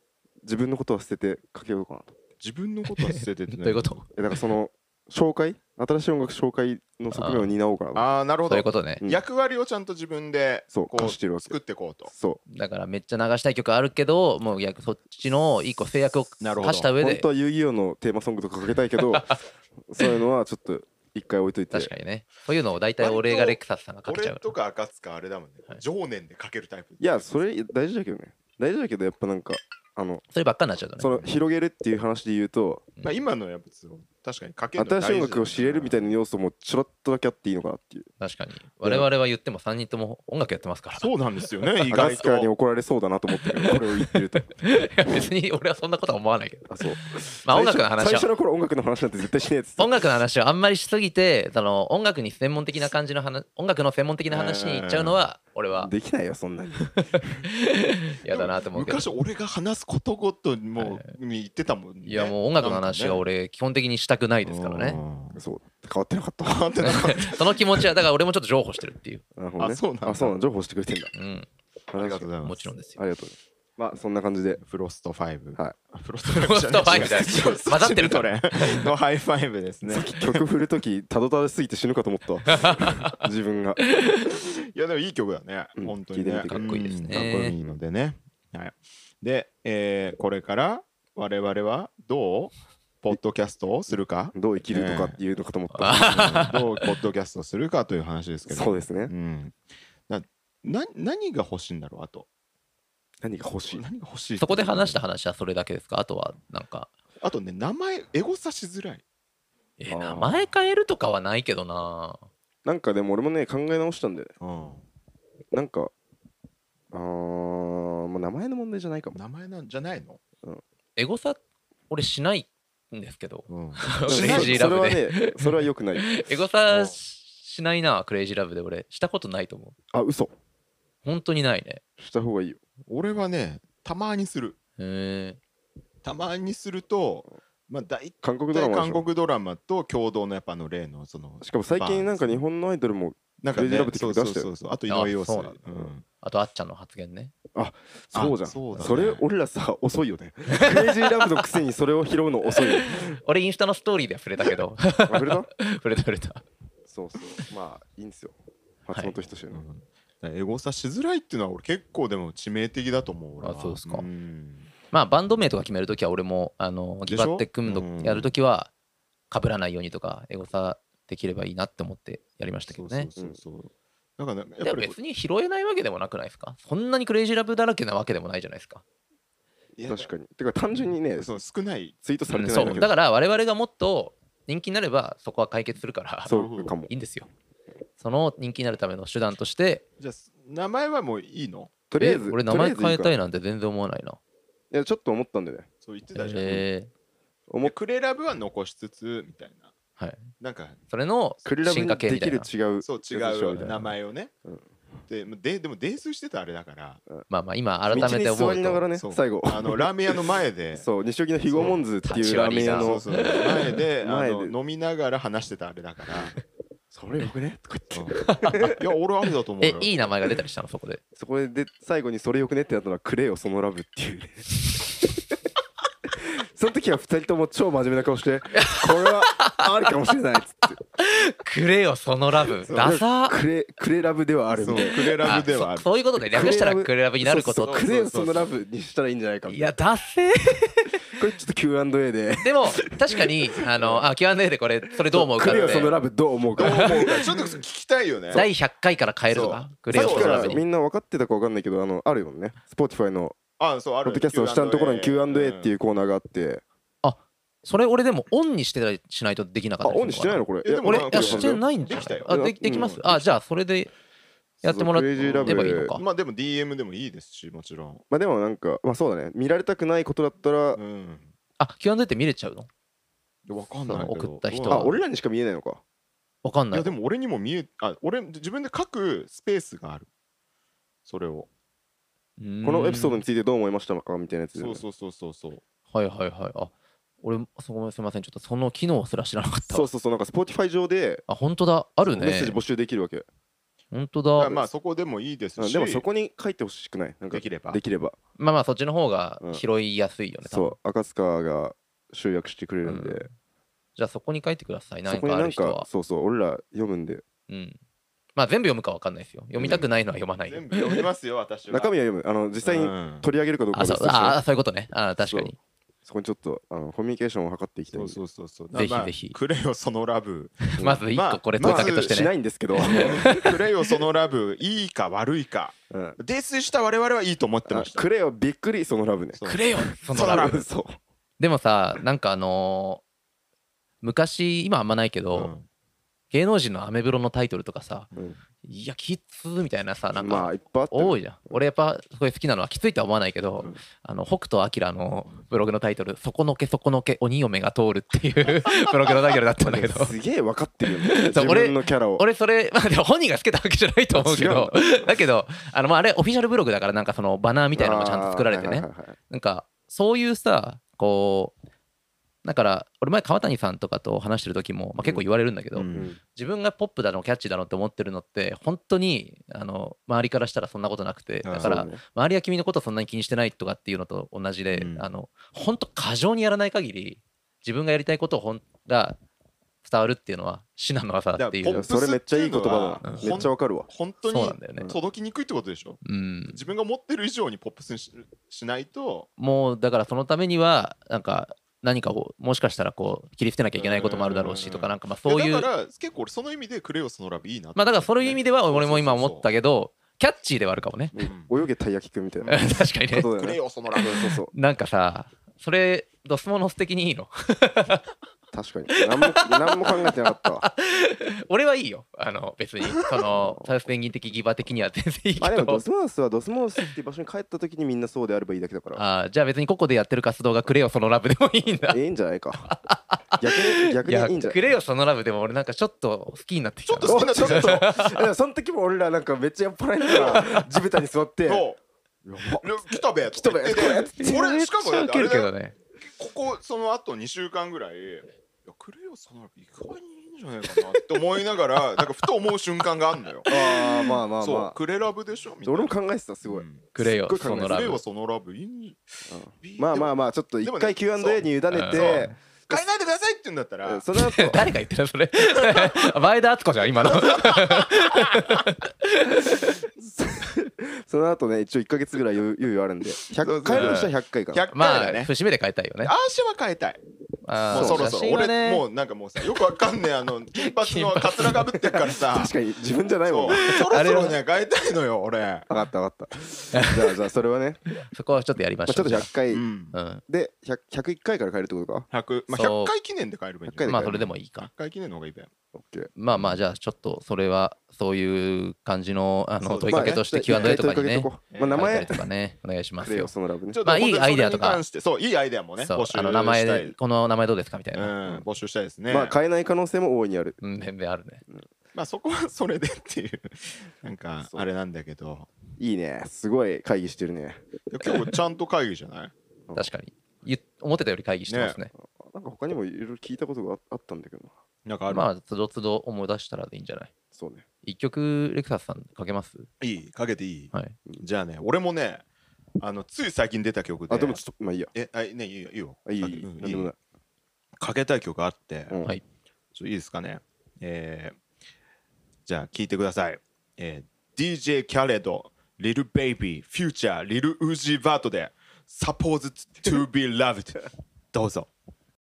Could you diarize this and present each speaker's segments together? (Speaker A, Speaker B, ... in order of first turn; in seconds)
Speaker A: 0.4-2.1, 4.1-8.1, 10.7-12.4, 17.0-21.9, 27.0-30.2, 31.0-32.9, 34.8-38.1, 41.9-44.5, 46.7-49.9, 55.8-57.4, 65.3-66.9, 69.3-71.1, 71.9-72.3, 73.0-74.6, 76.9-77.5, 79.8-83.8, 85.8-87.8, 94.3-96.5, 98.5-99.1, 103.2-103.8, 109.9-110.5, 112.6-114.3, 115.5-115.9, 116.9-119.2, 124.1-126.1, 129.9-130.3, 132.0-132.6, 138.2-139.1, 141.4-144.5, 147.5-153.2, 155.1-155.5, 156.9-159.6, 179.8-181.4, 182.0-182.9, 186.2-186.9, 191.9-193.1, 194.7-195.7, 201.4-203.7, 207.9-210.2, 210.7-214.5, 216.9-218.8, 221.2-224.5, 226.1-230.8, 232.7-235.4, 236.2-239.7, 241.1-244.0, 245.1-247.6, 249.9-253.4, 254.0-256.6, 259.8-261.6, 262.2-263.0, 264.6-265.9, 268.1-270.8, 274.7-275.8, 282.6-284.8, 289.7-291.2, 292.0-293.2, 295.6-298.1, 300.4-303.2, 305.1-307.2, 309.6-309.8, 311.7-314.4, 315.2-315.5, 316.0-318.2, 320.8-321.0, 321.6-323.5, 325.9-326.2, 327.7-331.0, 340.1-341.2, 349.6-352.2, 354.1-354.8, 357.7-359.1, 365.9-366.2, 371.6-372.0, 381.7-383.9, 401.1-404.5, 408.5-410.6, 415.4-419.0, 421.9-422.7, 423.4-424.6, 427.0-431.7, 432.2-432.7, 433.3-434.4, 443.5-444.8, 445.6-447.8, 449.3-452.8, 453.8-454.7, 459.6-464.7, 467.7-468.1, 472.2-473.7, 475.7-477.8, 478.9-479.6, 480.3-482.1, 483.7-484.3, 485.7-486.1, 489.9-492.2, 493.0-493.8, 499.1-500.6, 505.8-507.6, 511.9-514.5, 517.3-517.6, 524.1-524.9, 526.0-527.0, 528.9-529.1
Speaker B: 2.4-4.0, 7.9-12.1, 16.4-16.9, 23.0-27.4, 33.0-36.1, 41.0-42.5, 54.3-55.2, 58.3-63.2, 64.4-65.4, 66.4-67.8, 69.6-70.3, 72.0-72.6, 74.6-80.4, 84.3-95.2, 96.0-99.6, 100.1-102.3, 103.7-105.0, 107.2-109.0, 114.4-114.8, 119.1-120.2, 123.5-124.7, 126.7-127.0, 132.9-134.6, 136.0-142.4, 143.4-146.0, 148.1-149.2, 159.5-164.7, 167.1-168.3, 172.7-174.9, 179.8-180.1, 181.2-181.9, 182.6-182.8, 186.3-186.7, 190.0-191.7, 195.8-196.6, 197.6-199.7, 200.4-200.8, 202.8-204.3, 205.1-207.0, 207.9-208.2, 208.9-210.9, 211.5-211.8, 212.7-216.3, 217.9-219.9, 232.7-233.0, 234.5-235.9, 237.6-238.5, 245.4-245.9, 246.6-248.5, 249.3-250.6, 253.6-255.7, 260.6-263.3, 265.2-268.0, 270.8-271.3, 273.5-274.9, 276.7-280.1, 281.1-281.5, 284.5-285.6, 294.4-296.0, 297.3-297.8, 310.4-311.9, 312.6-313.2, 317.9-322.2, 322.8-328.1, 329.4-330.6, 335.3-335.6, 365.7-366.1, 371.4-371.8, 374.7-375.1, 381.4-389.3, 393.8-399.5, 401.2-401.5, 403.3-404.2, 426.9-427.9, 430.1-430.4, 431.5-431.8, 432.6-435.5, 436.2-443.5, 444.4-454.0, 457.4-457.8, 463.4-465.3, 466.0-467.0, 467.6-472.5, 473.2-475.7, 479.5-479.9, 482.1-485.5, 489.6-490.8, 491.5-492.1, 493.7-496.9, 497.9-499.4, 501.9-505.5, 507.9-509.3, 511.5-511.8, 514.9-515.3, 519.8-522.2, 522.8-524.4, 524.9-526.9, 527.8-529.0, 529.7-531.4, 532.5-541.7
Speaker C: 2.9-4.1, 7.1-7.5, 8.4-9.0, 12.5-17.2, 19.1-19.4, 21.7-24.5, 30.3-31.1, 38.2-41.1, 43.4-46.8, 47.4-48.3, 49.8-55.9, 56.9-59.1, 60.8-61.1, 62.0-65.0, 66.8-69.2, 71.1-71.5, 72.4-73.0, 76.2-78.9, 82.5-83.2, 83.9-84.3, 86.5-87.5, 95.7-96.9, 104.4-106.9, 109.8-112.2, 121.0-129.7, 131.0-131.8, 134.8-135.4, 144.9-145.6, 146.1-147.3, 150.5-151.1, 152.4-156.4, 163.4-164.1, 164.9-168.7, 169.3-173.1, 174.6-178.8, 182.3-187.3, 188.0-189.8, 192.0-194.2, 196.1-196.9, 200.0-200.3, 200.9-202.5, 203.6-203.9, 207.3-208.8, 212.0-213.8, 218.2-218.8, 219.6-221.0, 228.5-229.9, 231.0-233.4, 234.8-237.9, 239.5-241.1, 242.4-246.0, 246.6-247.0, 248.3-250.6, 257.0-263.9, 264.6-266.0, 271.6-272.7, 273.9-275.0, 276.4-276.9, 282.4-283.2, 285.9-289.9, 291.3-292.6, 293.9-294.6, 298.4-300.8, 302.8-303.3, 303.9-305.9, 307.5-307.8, 308.4-311.0, 313.7-315.6, 318.7-319.4, 320.7-323.5, 329.4-330.6, 331.4-333.0, 334.0-335.5, 336.3-338.1, 338.6-350.1, 351.0-361.5, 362.4-379.2, 379.8-381.9, 383.0-383.5, 384.3-384.9, 386.0-386.6, 389.4-395.7, 397.8-401.1, 402.5-403.3, 403.9-408.1, 409.0-415.8, 418.9-422.0, 422.6-428.3, 430.1-430.7, 433.7-435.7, 440.7-441.2, 442.0-442.3, 443.5-444.2, 446.9-448.0, 451.7-452.3, 454.1-459.8, 463.7-464.1, 464.7-466.1, 467.4-468.8, 470.6-471.8, 473.5-474.4, 476.7-477.1, 478.0-479.3, 479.9-480.2, 482.5-482.9, 483.8-484.7, 486.1-493.3, 493.8-494.8, 495.8-498.1, 500.6-501.4, 509.7-511.9, 515.1-517.1, 517.8-519.7